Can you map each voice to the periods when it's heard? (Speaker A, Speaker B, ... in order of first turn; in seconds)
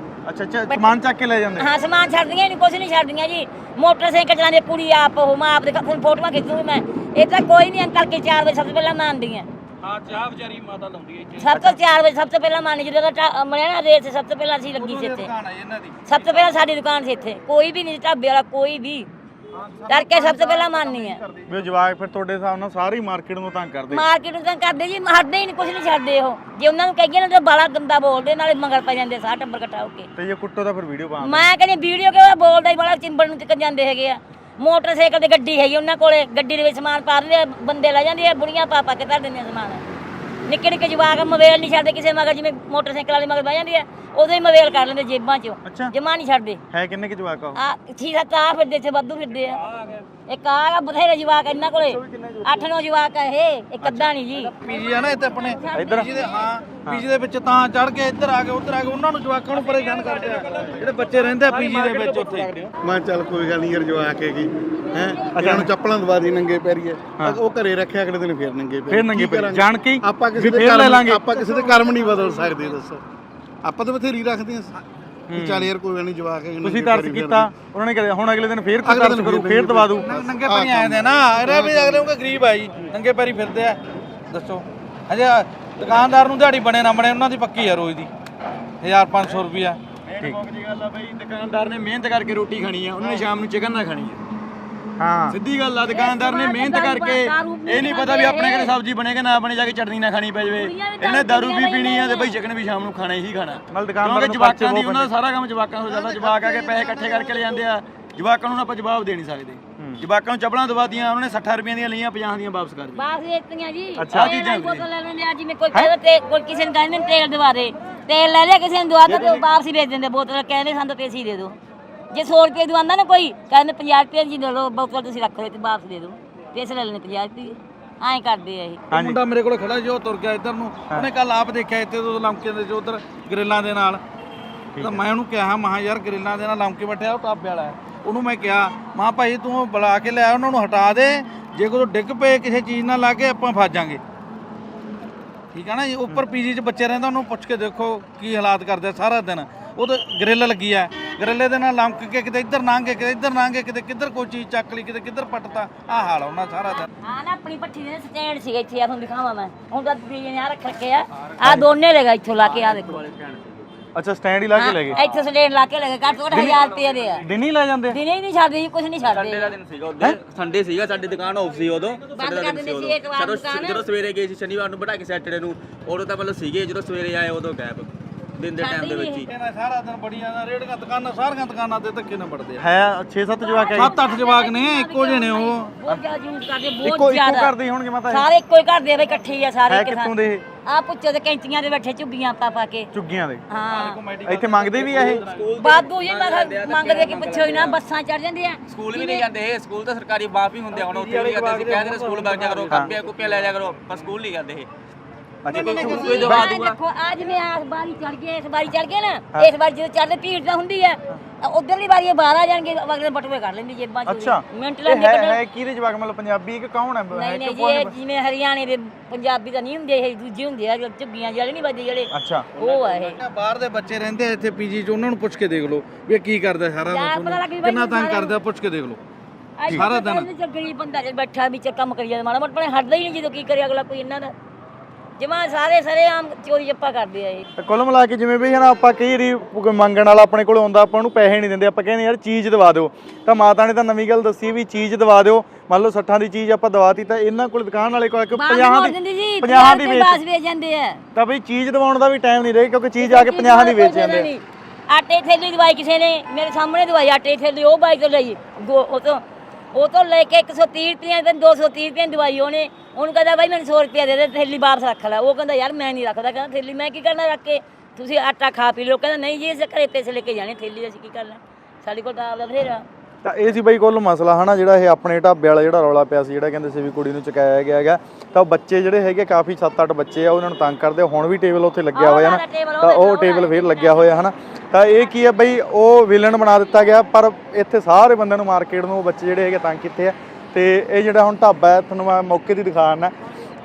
Speaker A: 0.3-1.7, 11.5-11.8, 21.5-24.0, 30.2-31.4, 45.6-45.9, 46.7-47.6, 52.1-52.4, 55.7-56.1, 65.3-65.7, 67.2-67.4, 68.9-71.2, 75.3-75.7, 76.6-80.1, 95.0-95.4, 103.7-105.1, 109.8-110.0, 114.0-114.3, 119.1-119.4, 128.9-129.2, 134.8-135.0, 163.9-165.0, 166.3-166.6, 167.2-168.0, 182.6-183.9, 186.8-188.3, 189.7-190.4, 192.9-193.4, 194.3-195.2, 205.4-206.5, 214.1-217.9, 222.1-222.5, 237.6-250.2, 251.2-254.3, 273.2-293.1
Speaker B: 1.6-9.5, 11.4-15.3, 16.1-19.1, 19.9-21.2, 23.9-30.1, 31.2-39.8, 40.5-46.6, 47.6-49.6, 50.3-54.6, 95.9-98.7, 100.5-102.4, 113.0-121.6, 122.1-128.8, 157.0-163.0, 164.6-167.2, 167.9-169.6, 172.1-173.8, 178.6-179.3, 183.4-187.5, 188.1-190.1, 190.7-192.9, 193.5-194.0, 195.6-199.3, 205.5-215.4, 217.1-223.2, 226.9-228.3, 229.6-234.3, 235.2-237.5, 248.3-251.0, 253.0-259.2, 259.7-272.9, 281.9-284.2
Speaker C: 9.8-11.4, 14.8-16.5, 19.6-21.2, 54.6-62.7, 80.0-83.8, 84.3-88.1, 88.8-89.8, 128.9-134.0, 134.8-144.0, 145.5-156.9, 179.3-182.6, 183.8-185.7, 193.7-195.5, 200.7-203.3, 223.1-229.0, 229.7-230.3
Speaker D: 62.8-73.0, 73.6-74.8, 75.3-77.5, 78.8-81.9
Speaker E: 90.0-94.2, 95.3-113.0, 114.1-114.9, 161.4-161.7, 162.3-163.8, 164.9-165.2, 166.1-167.2, 169.0-179.3, 194.7-197.8, 198.7-204.7, 205.5-206.8, 222.5-223.1